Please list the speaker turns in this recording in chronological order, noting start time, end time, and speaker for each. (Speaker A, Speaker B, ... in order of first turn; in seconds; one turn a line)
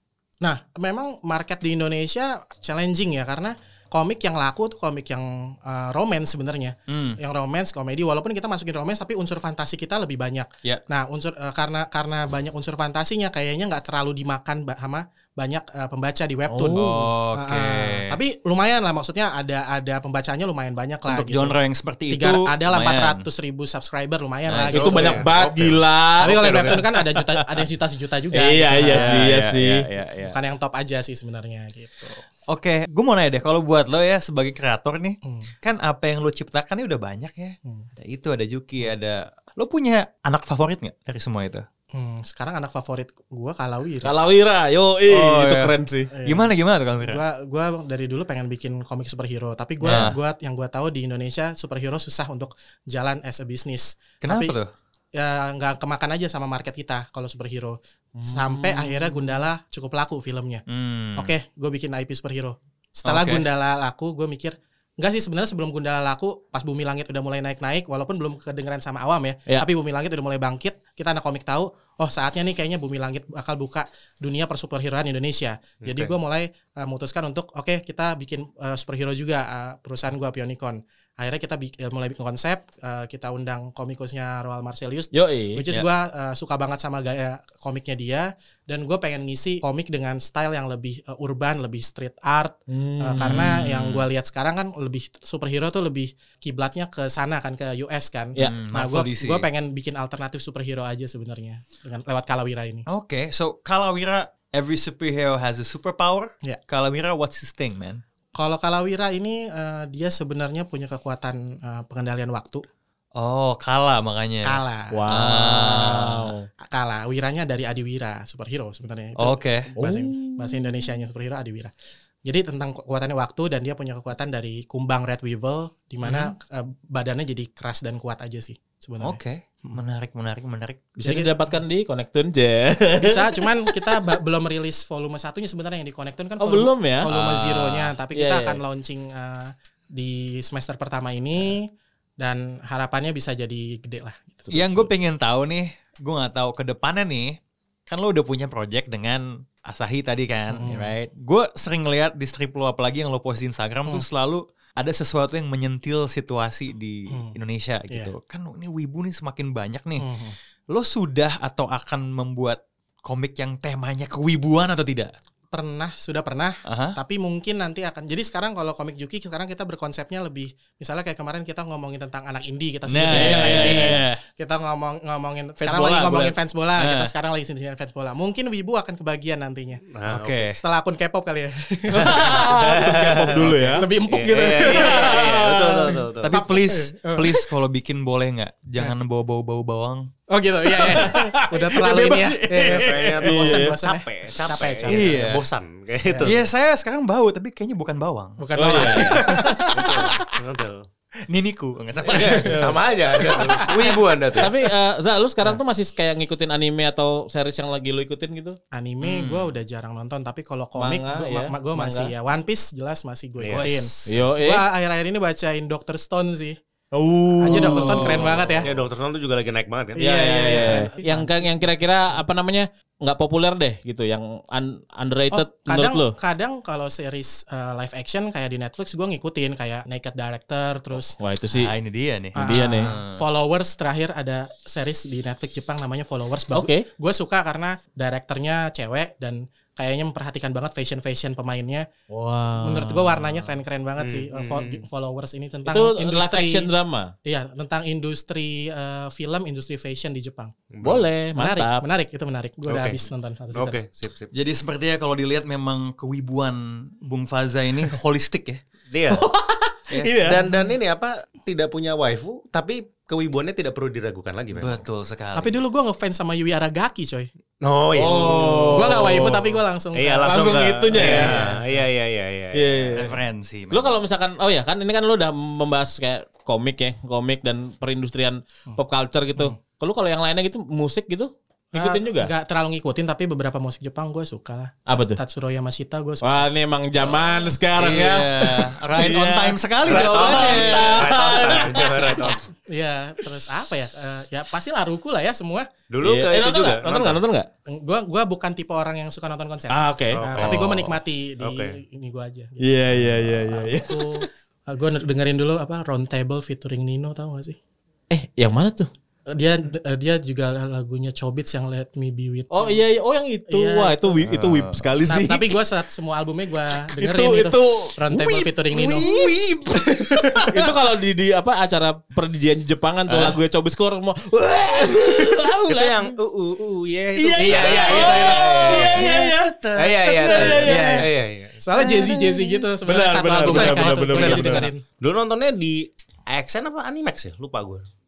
Speaker A: 0.4-21.5
Speaker B: 6.9-7.2
Speaker C: 16.5-17.1
Speaker B: 16.7-18.2
Speaker B: 21.1-23.2
Speaker A: 22.1-25.2
Speaker B: 24.4-25.2
Speaker C: 24.7-26.3
Speaker D: 24.7-26.9
Speaker A: 26.2-29.3
Speaker C: 28.3-30.3
Speaker B: 28.8-29.8
Speaker A: 30.2-32.2
Speaker B: 32.5-41.6
Speaker A: 35.2-35.5
Speaker A: 41.9-44.1
Speaker C: 44.0-46.1
Speaker B: 45.1-47.2
Speaker A: 46.1-46.5
Speaker A: 47.0-54.5
Speaker C: 49.8-50.1
Speaker B: 49.8-50.2
Speaker B: 54.2-54.7
Speaker A: 55.1-60.6
Speaker C: 58.2-59.4
Speaker B: 60.7-61.3
Speaker A: 61.1-102.8
Speaker B: 63.0-63.4
Speaker D: 75.8-76.1
Speaker C: 85.1-85.6
Speaker C: 92.7-93.4
Speaker B: 93.2-94.1
Speaker B: 98.4-99.5
Speaker B: 102.9-108.0
Speaker A: 108.3-112.6
Speaker B: 113.2-116.3
Speaker A: 114.4-115.0
Speaker C: 114.9-116.5
Speaker A: 116.6-121.7
Speaker B: 119.2-119.7
Speaker C: 119.8-120.7
Speaker A: 122.2-129.8
Speaker B: 126.0-126.3
Speaker B: 129.0-130.9
Speaker C: 131.0-133.8
Speaker A: 131.0-131.3
Speaker A: 133.0-144.7
Speaker C: 136.4-137.1
Speaker B: 137.1-137.9
Speaker C: 138.1-138.6
Speaker C: 144.5-144.8
Speaker B: 144.5-160.1
Speaker A: 150.5-150.9
Speaker A: 160.0-160.3
Speaker B: 160.7-165.1
Speaker A: 165.5-179.8
Speaker B: 166.7-167.0
Speaker B: 172.9-174.2
Speaker C: 173.0-174.0
Speaker B: 175.6-177.1
Speaker D: 179.9-180.4
Speaker B: 180.1-180.6
Speaker A: 180.4-182.5
Speaker C: 181.9-183.9
Speaker D: 182.6-183.3
Speaker B: 183.3-183.8
Speaker A: 183.7-185.5
Speaker D: 184.1-186.3
Speaker C: 184.6-186.0
Speaker B: 186.2-190.1
Speaker A: 186.3-187.4
Speaker A: 190.3-195.2
Speaker C: 190.8-192.0
Speaker B: 190.8-193.0
Speaker D: 192.6-196.4
Speaker C: 193.2-193.7
Speaker B: 194.9-195.4
Speaker A: 196.1-196.3
Speaker B: 196.2-200.0
Speaker A: 198.4-199.9
Speaker C: 198.6-199.7
Speaker D: 199.7-200.8
Speaker B: 201.3-202.8
Speaker D: 202.1-204.5
Speaker C: 202.1-202.7
Speaker A: 203.2-204.0
Speaker C: 204.4-208.6
Speaker A: 208.7-216.6
Speaker B: 209.0-209.5
Speaker C: 210.8-212.1
Speaker D: 213.4-213.9
Speaker B: 213.5-214.0
Speaker C: 214.1-214.6
Speaker C: 216.9-218.1
Speaker A: 217.4-218.7
Speaker B: 217.5-218.5
Speaker D: 218.0-220.0
Speaker A: 219.9-221.7
Speaker C: 220.0-226.1
Speaker A: 225.3-231.2
Speaker C: 231.2-231.7
Speaker B: 231.5-233.2
Speaker A: 232.4-241.9
Speaker C: 232.4-232.9
Speaker C: 236.5-236.8
Speaker C: 242.1-243.5
Speaker A: 242.6-246.7
Speaker D: 244.0-244.8
Speaker C: 245.7-247.1
Speaker A: 247.2-250.5
Speaker D: 250.7-251.1
Speaker C: 250.8-251.8
Speaker A: 251.3-253.7
Speaker D: 252.7-253.0
Speaker D: 253.5-254.3
Speaker B: 254.3-258.6
Speaker D: 258.9-259.2
Speaker C: 259.2-260.4
Speaker B: 259.9-260.2
Speaker D: 260.2-264.8
Speaker B: 264.5-265.6
Speaker A: 265.3-267.3
Speaker D: 267.6-272.9
Speaker C: 267.9-269.3
Speaker A: 268.1-271.3
Speaker C: 270.2-271.4
Speaker B: 271.0-271.5
Speaker C: 272.5-273.1
Speaker B: 272.9-273.9
Speaker C: 273.7-282.3
Speaker A: 281.7-286.5
Speaker C: 284.9-285.2
Speaker C: 286.2-292.4
Speaker B: 287.7-291.0
Speaker D: 289.9-292.4
Speaker A: 292.7-295.7
Speaker D: 295.9-297.2
Speaker C: 296.0-297.5
Speaker A: 297.7-307.6
Speaker C: 299.7-300.9
Speaker D: 300.1-300.9
Speaker D: 301.4-301.8
Speaker C: 302.6-304.2
Speaker C: 308.1-308.9
Speaker A: 309.3-312.8
Speaker C: 312.5-315.6
Speaker A: 313.5-314.2
Speaker B: 314.3-314.9
Speaker A: 315.0-319.1
Speaker C: 316.9-319.3
Speaker B: 318.7-320.5
Speaker C: 320.5-326.1
Speaker B: 323.1-323.3
Speaker D: 325.6-329.0
Speaker C: 327.1-329.5
Speaker A: 327.5-328.1
Speaker B: 327.5-330.7
Speaker D: 329.8-331.6
Speaker C: 330.1-331.1
Speaker A: 330.6-334.8
Speaker B: 331.7-332.5
Speaker C: 332.8-334.7
Speaker D: 333.5-337.8
Speaker B: 333.5-334.4